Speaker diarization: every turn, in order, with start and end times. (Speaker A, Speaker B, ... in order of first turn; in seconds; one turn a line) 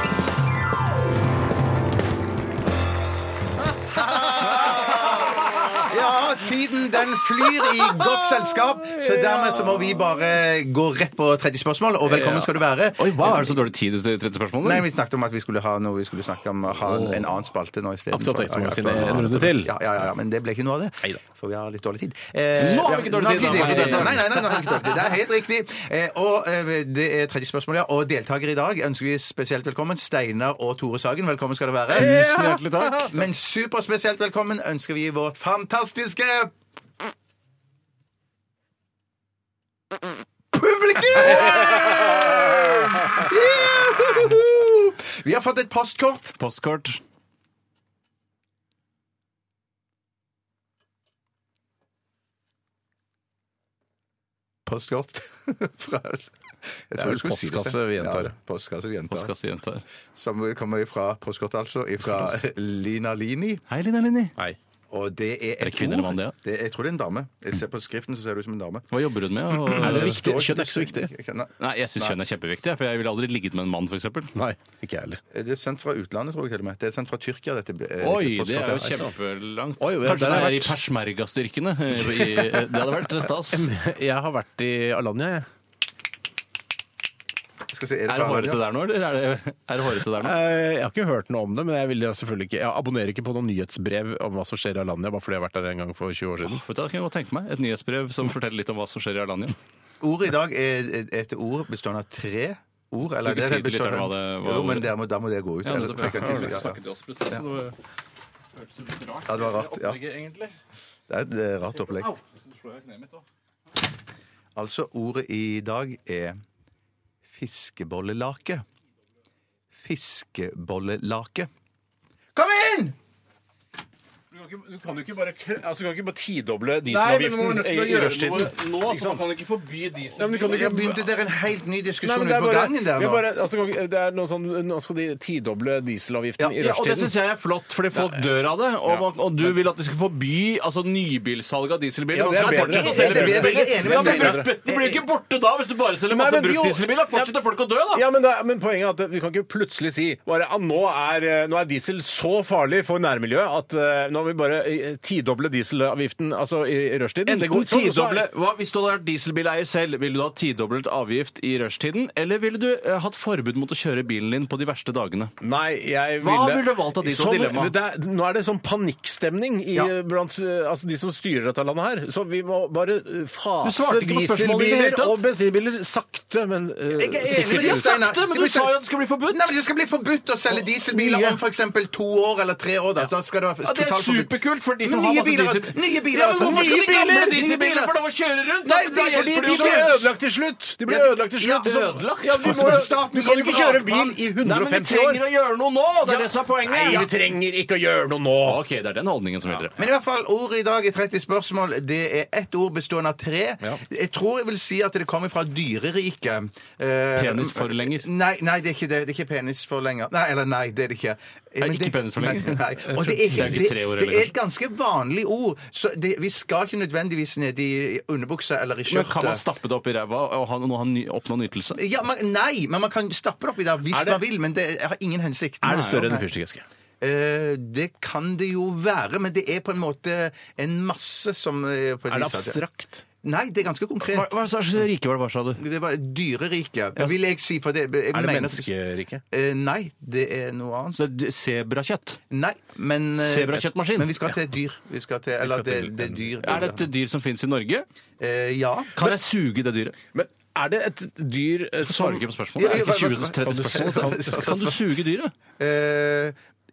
Speaker A: 4.0-13.6
Speaker B: 4.4-5.8
Speaker B: 7.6-10.3
Speaker C: 13.0-14.9
Speaker A: 14.6-32.2
Speaker B: 16.8-17.4
Speaker B: 18.1-19.8
Speaker C: 22.6-24.7
Speaker B: 22.6-24.4
Speaker B: 31.9-33.2
Speaker C: 32.0-33.1
Speaker A: 33.1-36.5
Speaker A: 40.5-46.4
Speaker B: 41.2-42.3
Speaker C: 46.4-47.0
Speaker A: 54.7-56.3
Speaker A: 56.9-59.3
Speaker B: 57.0-58.3
Speaker C: 59.1-59.8
Speaker A: 60.2-63.6
Speaker C: 63.7-64.3
Speaker A: 64.9-68.9
Speaker C: 65.6-66.3
Speaker C: 68.9-70.2
Speaker A: 69.6-72.2
Speaker B: 69.7-71.1
Speaker C: 71.6-74.3
Speaker B: 74.3-75.2
Speaker A: 75.3-79.0
Speaker C: 78.0-83.7
Speaker B: 79.8-80.8
Speaker B: 82.1-85.5
Speaker A: 87.7-88.6
Speaker C: 88.1-90.4
Speaker B: 90.2-96.6
Speaker C: 96.5-99.5
Speaker A: 100.0-106.8
Speaker C: 103.2-104.9
Speaker C: 105.6-107.8
Speaker B: 106.2-106.5
Speaker C: 108.6-110.5
Speaker A: 109.3-110.0
Speaker A: 111.1-112.1
Speaker C: 112.0-113.2
Speaker A: 114.5-116.4
Speaker A: 117.3-118.6
Speaker A: 119.8-121.5
Speaker A: 122.3-123.0
Speaker B: 124.3-129.2
Speaker C: 126.9-130.8
Speaker B: 130.2-131.0
Speaker A: 130.5-133.2
Speaker B: 132.0-137.1
Speaker C: 136.6-148.1
Speaker B: 142.1-144.5
Speaker A: 142.4-145.0
Speaker B: 146.1-147.3
Speaker B: 147.9-158.2
Speaker C: 157.3-165.3
Speaker B: 165.4-177.9
Speaker C: 166.2-167.7
Speaker C: 173.6-175.2
Speaker A: 176.9-187.9
Speaker C: 177.3-179.5
Speaker B: 180.5-181.4
Speaker C: 183.6-190.1
Speaker B: 186.2-187.5
Speaker B: 188.7-195.2
Speaker A: 188.7-189.9
Speaker A: 190.9-194.2
Speaker C: 191.6-192.9
Speaker C: 194.4-197.1
Speaker B: 196.6-198.6
Speaker C: 198.4-199.8
Speaker A: 199.8-219.4
Speaker C: 207.2-208.1
Speaker C: 211.6-214.3
Speaker B: 212.9-213.6
Speaker C: 218.9-221.8
Speaker A: 221.8-226.3
Speaker B: 223.9-224.2
Speaker B: 225.6-226.7
Speaker C: 225.7-226.2
Speaker A: 227.0-232.6
Speaker B: 232.1-233.1
Speaker A: 233.2-234.3
Speaker C: 234.0-235.6
Speaker A: 235.6-238.7
Speaker B: 238.1-239.2
Speaker A: 239.3-241.0
Speaker C: 241.0-242.2
Speaker A: 242.3-246.9
Speaker C: 243.2-244.1
Speaker B: 245.4-246.4
Speaker C: 246.4-247.9
Speaker A: 248.2-249.1
Speaker C: 248.9-250.0
Speaker B: 250.1-252.2
Speaker C: 251.8-255.3
Speaker A: 252.6-254.9
Speaker A: 255.6-256.4